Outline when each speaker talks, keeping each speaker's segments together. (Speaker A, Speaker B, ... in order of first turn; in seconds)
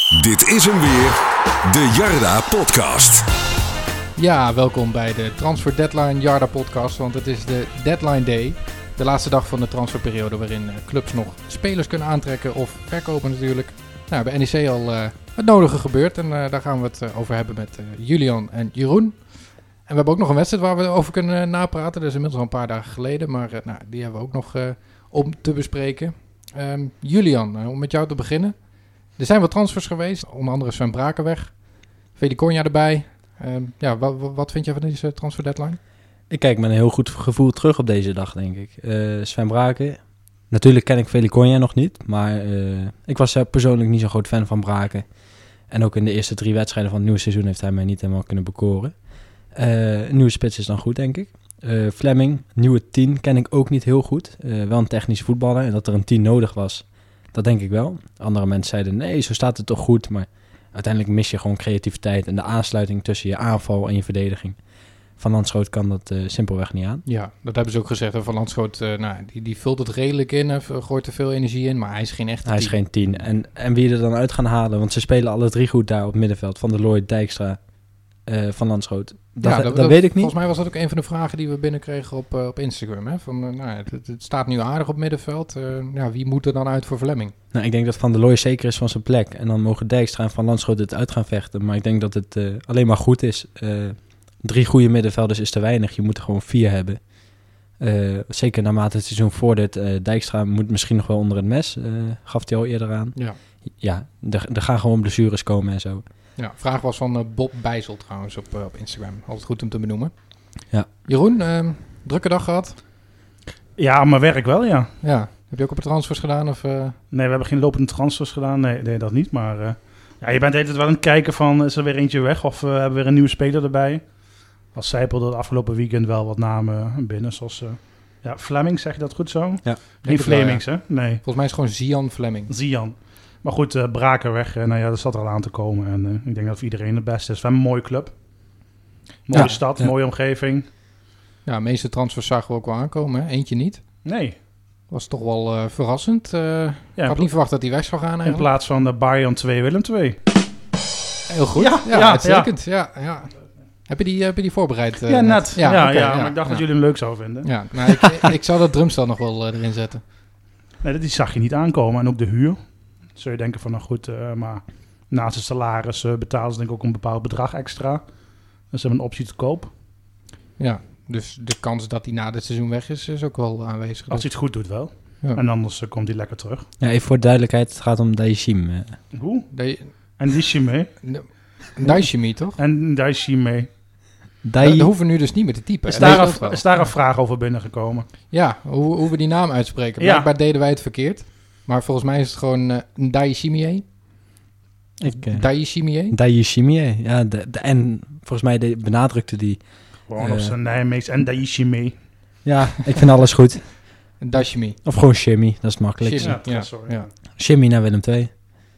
Speaker A: 0.1-3.3
Speaker B: 4.2-19.3, 19.8-28.6, 29.1-31.6, 32.1-35.8, 67.0-72.8, 79.4-87.3, 106.4-110.1, 111.0-112.8, 115.0-117.0, 130.0-132.5, 139.3-139.6, 141.4-143.8, 144.9-148.5, 151.3-153.3, 153.9-156.9, 157.4-160.0, 170.6-174.5, 179.5-179.9, 181.0-182.6, 184.6-186.7, 188.3-193.8, 195.0-196.2, 204.2-204.8, 206.0-207.1
Speaker C: 36.3-40.0, 40.5-45.0, 45.7-64.6, 65.2-67.0, 72.4-77.6, 78.2-80.3, 87.5-97.0, 97.8-106.0, 139.3-139.9, 176.8-179.0, 184.4-184.9, 186.0-186.2, 195.0-199.6, 200.2-200.5, 202.4-203.7, 204.8-206.4, 207.4-208.3
Speaker D: 113.8-114.9, 117.1-124.1, 124.7-131.2, 132.5-138.1, 139.2-140.6, 144.0-144.3, 147.0-147.3, 148.2-150.2, 151.6-152.5, 155.1-157.6, 160.8-168.0, 168.7-169.7, 174.1-176.7, 179.1-179.5, 180.2-180.9, 182.6-183.7, 185.9-188.1, 190.0-190.3, 200.1-201.9, 206.2-207.1